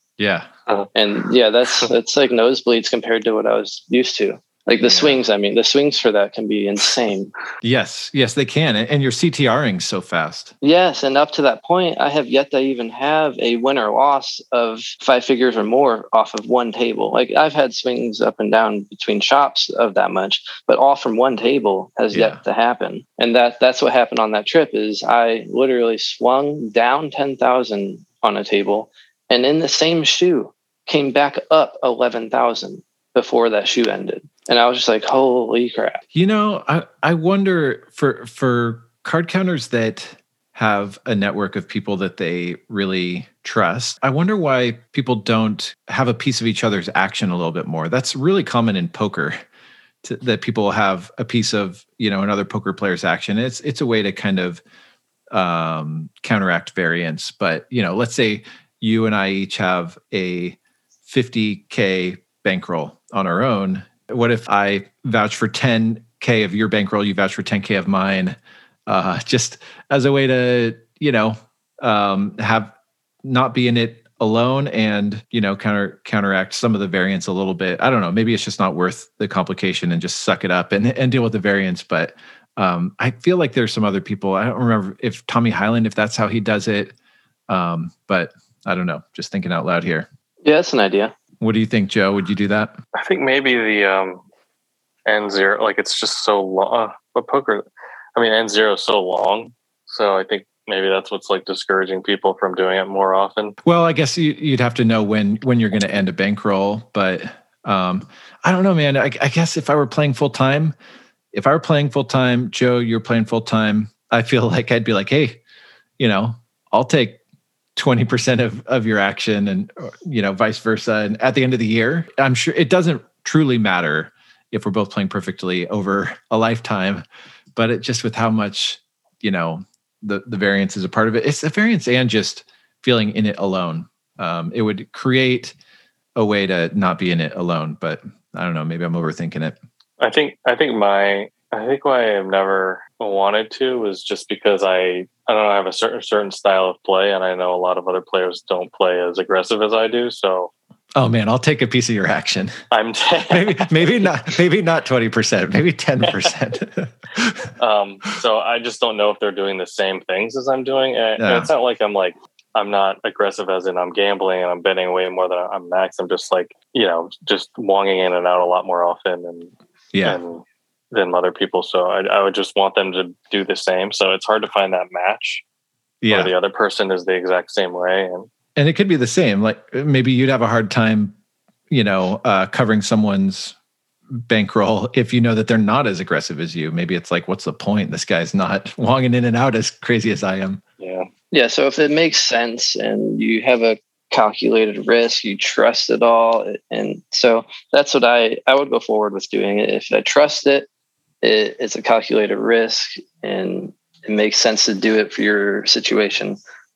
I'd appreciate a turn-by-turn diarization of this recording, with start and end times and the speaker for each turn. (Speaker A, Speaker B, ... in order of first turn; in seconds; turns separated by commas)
Speaker A: 0.2-0.5, Speaker B: 0.9-7.3, Speaker A: 4.8-5.2, Speaker A: 7.6-10.5, Speaker B: 10.6-36.0, Speaker A: 22.1-22.4, Speaker A: 36.1-49.4, Speaker A: 50.0-54.6, Speaker A: 55.3-72.7, Speaker A: 73.2-87.0, Speaker A: 87.5-90.1, Speaker B: 90.5-91.1, Speaker A: 91.4-92.8, Speaker C: 93.0-94.2, Speaker C: 95.1-103.6, Speaker A: 103.7-110.7, Speaker A: 111.3-115.4, Speaker A: 116.0-117.2, Speaker A: 117.8-127.0, Speaker A: 127.6-135.6, Speaker A: 136.2-139.6, Speaker C: 140.0-150.5, Speaker A: 150.9-152.5, Speaker C: 152.7-154.2, Speaker A: 153.3-157.5, Speaker C: 157.6-169.5, Speaker A: 161.2-161.5, Speaker A: 169.9-170.2, Speaker C: 170.1-175.4, Speaker A: 176.0-176.3, Speaker C: 176.1-178.3, Speaker A: 178.6-181.1, Speaker A: 181.7-183.6, Speaker A: 184.2-190.6, Speaker C: 190.8-191.1, Speaker B: 191.3-200.7, Speaker B: 201.2-206.4